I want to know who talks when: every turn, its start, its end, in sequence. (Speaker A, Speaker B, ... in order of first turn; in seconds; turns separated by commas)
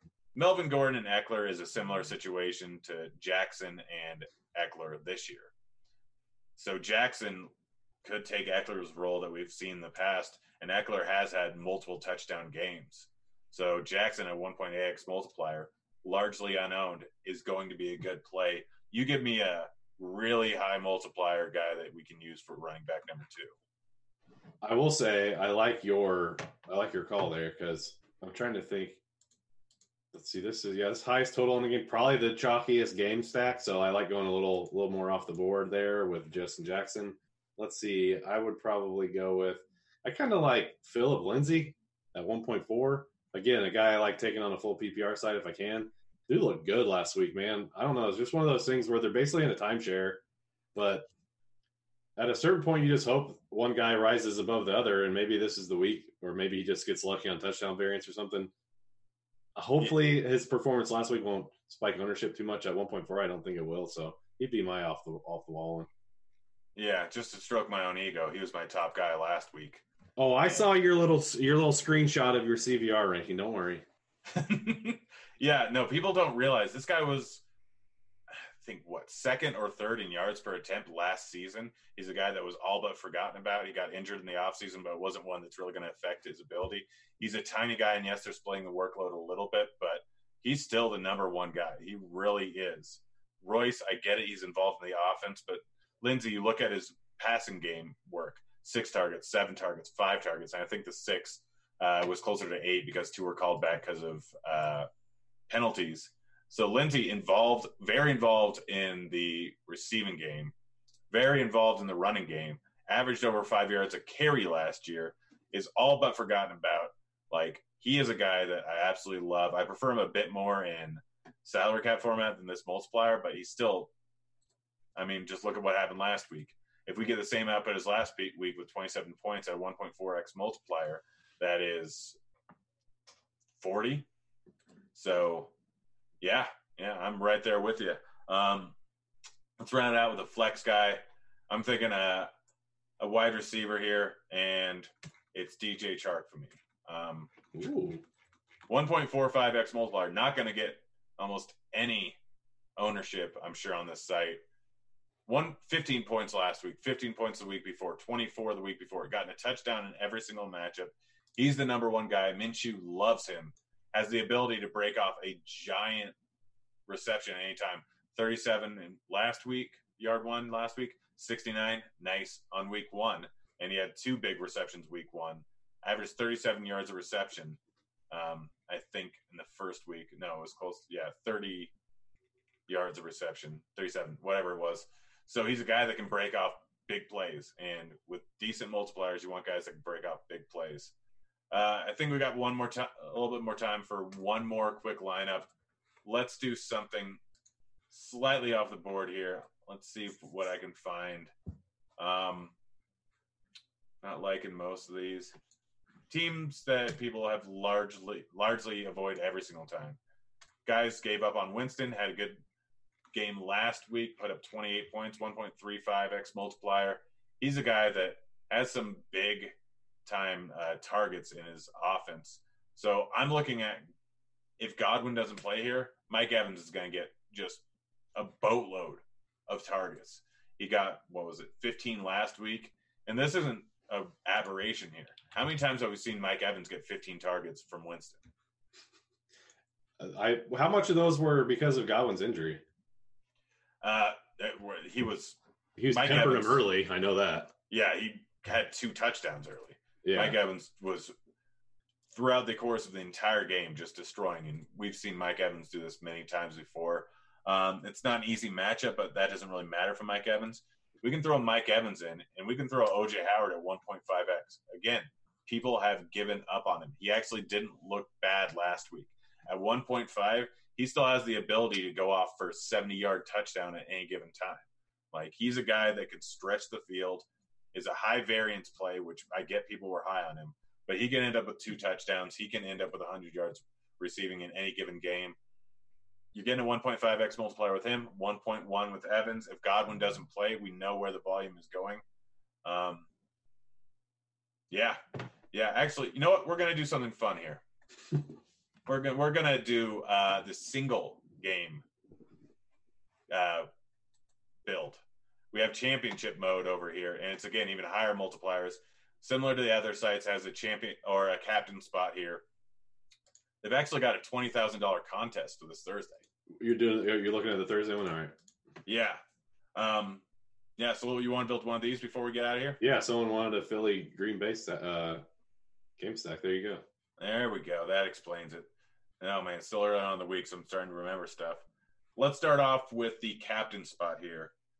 Speaker A: 0.3-5.5, Speaker A: 6.6-7.5, Speaker A: 8.0-23.6, Speaker B: 24.6-29.0, Speaker B: 30.1-50.2, Speaker B: 50.8-51.1, Speaker B: 52.2-58.5, Speaker B: 59.5-65.9, Speaker A: 59.8-60.1, Speaker A: 66.8-69.8, Speaker B: 70.2-73.8, Speaker A: 74.3-77.4, Speaker A: 78.3-104.9, Speaker A: 105.5-110.5, Speaker A: 111.1-123.9, Speaker A: 125.0-132.2, Speaker A: 133.6-134.1, Speaker A: 134.9-135.5, Speaker A: 136.2-138.8, Speaker A: 139.6-142.3, Speaker A: 143.0-147.3, Speaker B: 147.5-148.0, Speaker A: 148.7-152.2, Speaker A: 152.8-154.4, Speaker A: 155.3-166.2, Speaker A: 166.9-177.6, Speaker A: 178.1-181.7, Speaker A: 182.7-190.9, Speaker A: 191.5-195.5, Speaker A: 196.1-197.2, Speaker A: 197.9-201.3, Speaker A: 202.0-202.5, Speaker A: 204.0-205.3, Speaker A: 206.1-210.0, Speaker A: 210.7-212.4, Speaker A: 213.1-219.5, Speaker A: 220.1-223.9, Speaker A: 224.6-227.6, Speaker A: 228.2-238.2, Speaker B: 240.0-242.6, Speaker A: 243.8-245.4, Speaker B: 245.8-247.5, Speaker A: 245.9-246.7, Speaker A: 247.7-251.1, Speaker B: 250.0-250.4, Speaker A: 252.1-285.4, Speaker A: 286.3-292.0, Speaker A: 292.6-293.1, Speaker A: 294.7-295.0, Speaker A: 295.5-297.6, Speaker A: 298.9-301.8, Speaker A: 303.3-303.7, Speaker A: 304.6-305.0, Speaker A: 305.5-312.4, Speaker A: 313.6-316.3, Speaker B: 316.6-318.4, Speaker A: 318.9-319.2, Speaker A: 319.8-320.2, Speaker A: 320.8-322.8, Speaker B: 322.8-325.2, Speaker B: 326.0-326.8, Speaker A: 327.2-328.7, Speaker A: 329.2-331.6, Speaker A: 332.2-334.5